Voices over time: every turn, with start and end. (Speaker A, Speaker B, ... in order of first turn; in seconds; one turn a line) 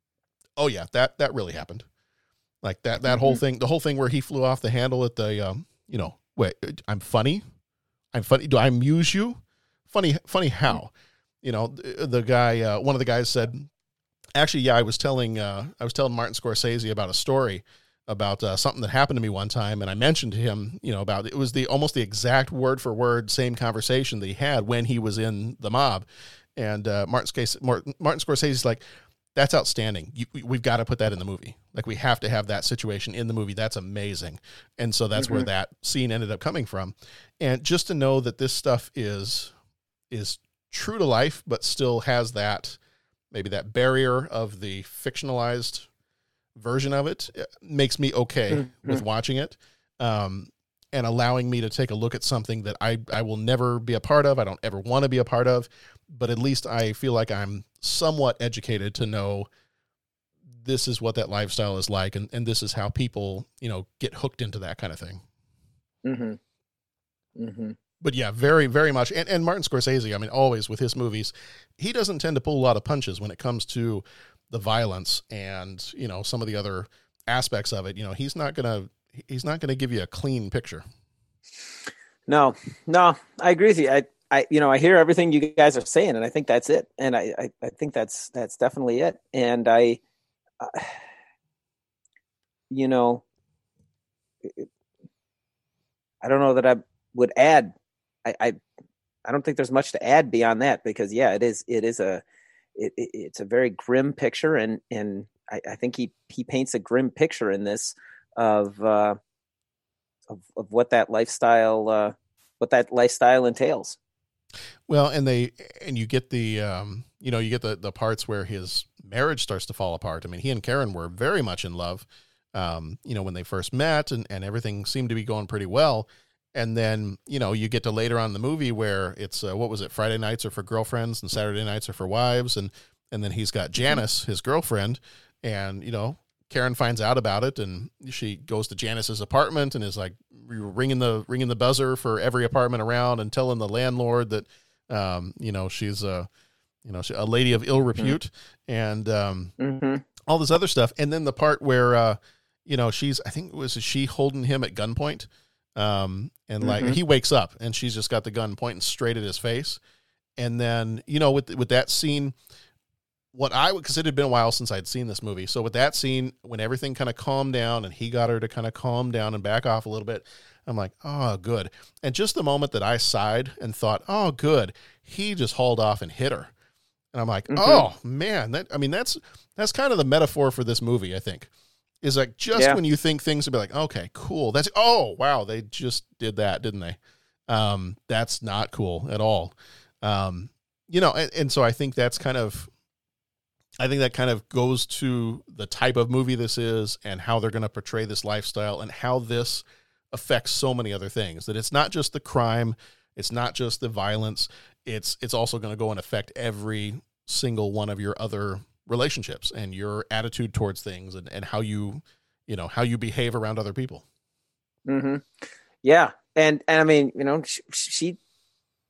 Speaker A: 0.6-1.9
Speaker A: 2.6-7.5
Speaker B: 3.1-3.4
Speaker A: 8.1-10.9
Speaker A: 11.4-13.7
Speaker A: 14.3-28.8
Speaker A: 29.4-39.5
Speaker B: 35.2-35.5
Speaker A: 40.1-42.8
Speaker A: 43.3-45.9
Speaker A: 46.6-59.5
Speaker B: 48.5-49.0
Speaker A: 60.6-65.2
Speaker B: 66.0-66.4
Speaker B: 67.4-67.8
Speaker A: 68.0-80.8
Speaker B: 82.3-90.0
Speaker B: 90.6-91.0
Speaker B: 92.7-93.2
Speaker B: 96.2-97.7
Speaker B: 98.2-98.6
Speaker B: 99.2-102.2
Speaker B: 102.8-109.2
Speaker B: 110.3-114.0
Speaker A: 114.9-146.3
Speaker A: 146.8-149.5
Speaker B: 149.6-150.0
Speaker A: 150.3-159.8
Speaker B: 156.6-157.0
Speaker A: 160.4-162.3
Speaker A: 163.3-176.5
Speaker A: 177.1-181.5
Speaker B: 177.5-177.8
Speaker A: 182.0-192.7
Speaker B: 182.5-182.8
Speaker A: 193.8-214.1
Speaker B: 214.9-215.3
Speaker B: 215.8-218.2